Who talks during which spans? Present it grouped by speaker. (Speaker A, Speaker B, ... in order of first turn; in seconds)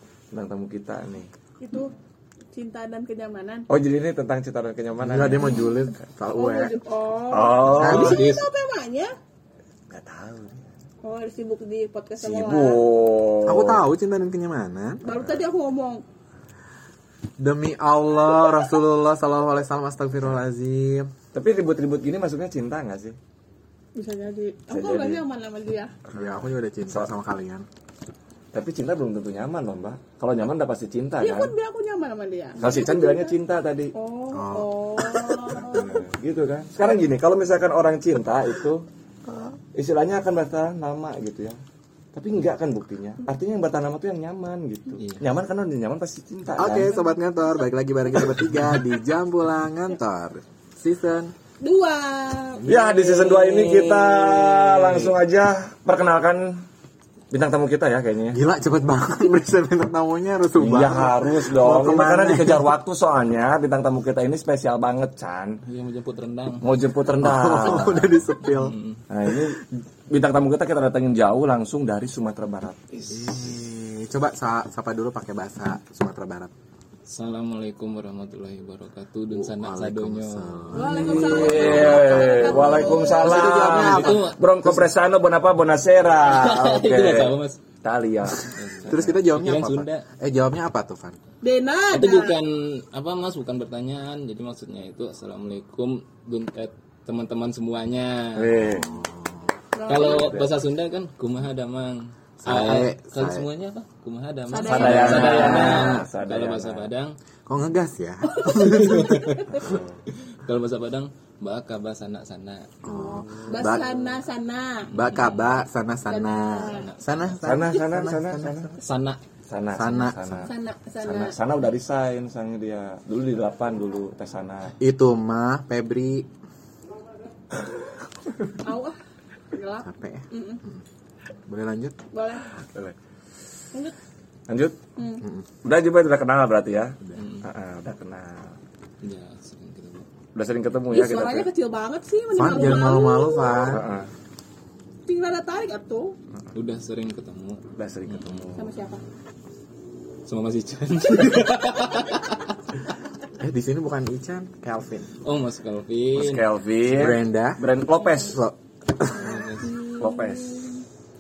Speaker A: 0.3-1.3, 3.7-5.7, 7.3-8.2, 9.9-10.7, 12.2-13.8, 21.3-23.2, 24.7-25.2, 26.1-27.1, 28.5-31.5, 32.6-33.9, 35.6-38.9, 39.8-41.6, 42.1-46.9, 52.6-56.6, 57.3-58.4, 60.6-65.6, 66.6-68.2, 69.1-72.8, 81.0-88.5, 98.4-98.9, 100.0-100.5, 104.6-106.9, 109.5-110.0, 113.3-113.9, 117.4-118.7, 119.5-124.8, 132.6-132.9, 134.5-134.8, 135.6-138.6, 140.3-141.5, 143.7-144.1, 147.8-148.7, 156.2-158.4, 160.0-160.7
Speaker B: 1.6-1.9, 2.5-3.7, 5.4-9.1, 11.0-12.8, 15.0-16.0, 23.9-25.9, 31.2-33.4, 34.0-36.0, 46.6-47.0, 51.6-52.7, 80.7-83.7, 91.4-92.4, 99.8-100.3, 104.5-106.0, 108.3-109.7, 112.9-114.9, 116.1-116.9, 120.5-121.3, 128.6-129.0, 129.5-130.6, 132.1-132.5, 135.0-135.2, 140.9-143.8, 145.1-146.2, 148.6-149.0, 159.2-160.8
Speaker C: 5.0-6.7, 7.8-8.2, 13.5-15.4, 17.4-21.1, 26.1-27.7, 34.3-35.4, 46.6-51.3, 58.3-62.7, 67.2-68.8, 73.1-76.5, 79.3-84.3, 88.8-91.2, 98.6-99.5, 102.4-103.5, 104.7-106.1, 107.5-109.7, 112.8-113.9, 114.9-118.8, 119.7-120.5, 124.8-126.3, 129.8-130.8, 131.5-132.0, 135.2-135.5, 142.3-143.9, 153.4-155.1, 156.9-157.6, 158.2-159.4
Speaker D: 7.8-8.4, 45.0-45.2, 52.6-55.1, 65.6-66.7, 68.4-69.0, 77.1-81.9, 83.1-84.4, 86.3-87.6, 88.4-90.1, 91.9-98.5, 99.9-107.2, 108.6-109.4, 110.3-112.7, 114.9-115.6, 116.7-117.0, 118.8-119.2, 137.1-137.5, 139.0-140.1, 146.5-148.6, 150.3-152.5, 155.2-156.4, 159.1-159.8